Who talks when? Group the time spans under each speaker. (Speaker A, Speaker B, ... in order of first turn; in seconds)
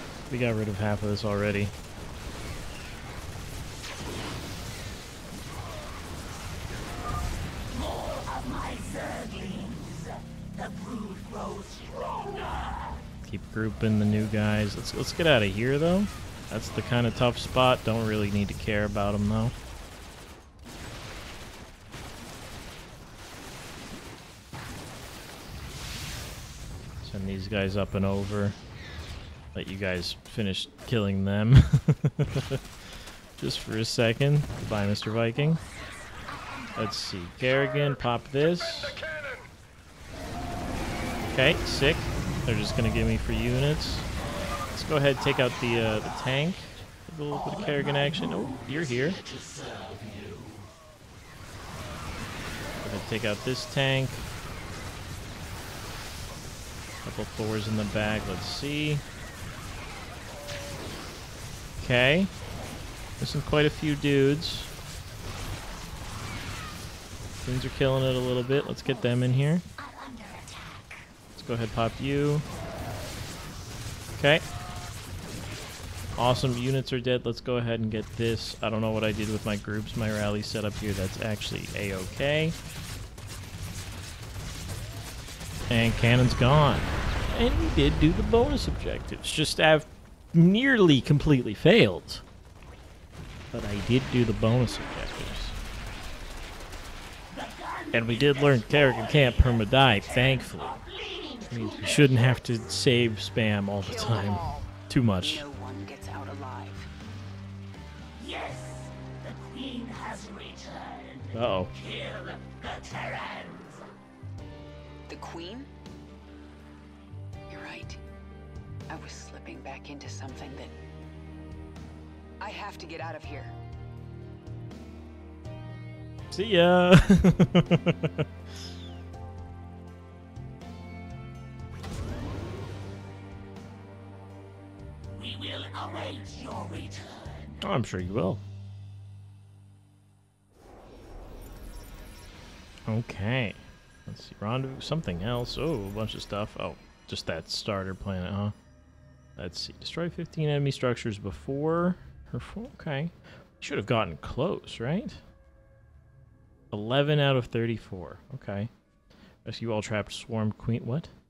Speaker A: 0.3-1.7, 13.2-19.6, 27.0-28.6, 29.5-32.6, 33.4-35.6, 36.8-39.0, 41.3-44.1, 44.7-49.2, 52.8-54.3, 57.0-59.0, 61.8-62.3, 63.2-64.7, 67.4-69.7, 71.4-72.5, 74.1-74.4, 76.2-82.6, 85.7-92.2, 93.5-95.6, 97.9-100.8, 101.5-105.4, 111.3-111.7, 126.3-128.3, 137.6-138.4, 142.9-148.6, 149.4-155.2, 156.7-158.7, 159.4-161.1
Speaker B: 7.7-13.0, 47.3-50.7, 69.8-71.0, 97.3-102.4, 108.2-113.8, 135.1-137.6
Speaker C: 103.8-106.9, 115.1-115.7, 117.5-118.0, 118.9-120.8, 122.4-123.5